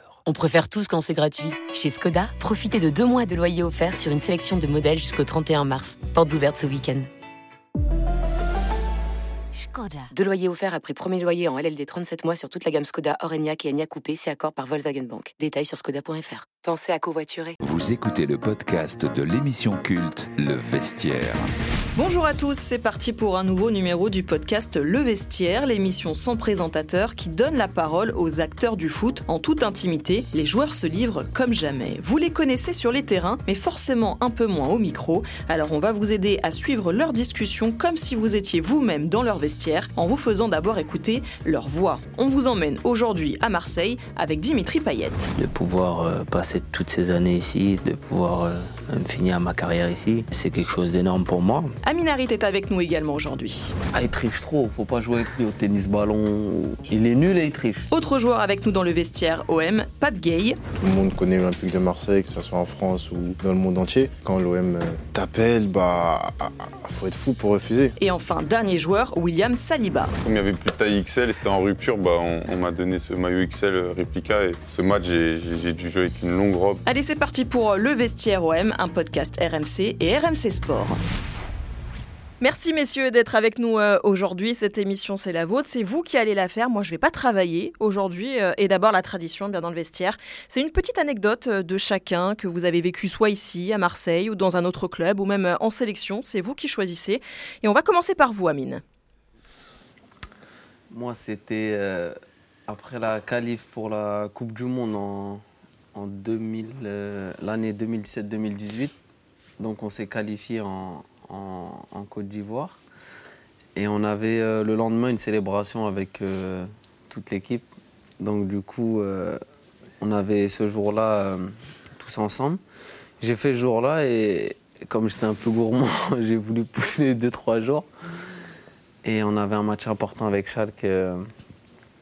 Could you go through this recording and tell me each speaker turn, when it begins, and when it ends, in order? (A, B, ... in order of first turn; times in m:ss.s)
0:00.3-0:07.1 A
0:10.1-0:17.6 A
0:17.6-0:21.5 B
0:22.0-0:45.3 C
0:45.4-0:51.8 D
0:51.8-0:53.8 C
0:53.9-0:57.9 E
0:57.9-1:00.6 C
1:00.8-1:07.9 F
1:08.0-1:10.1 C
1:10.2-1:16.8 G
1:16.9-1:21.0 C
1:22.4-1:38.8 C
1:40.9-1:42.2 E
1:42.7-1:45.4 E
1:45.9-1:49.0 E
1:49.6-1:52.8 E
1:53.8-1:57.7 E
1:58.2-1:59.4 E
2:00.0-2:02.6 E
2:03.2-2:07.9 E
2:09.0-2:11.3 E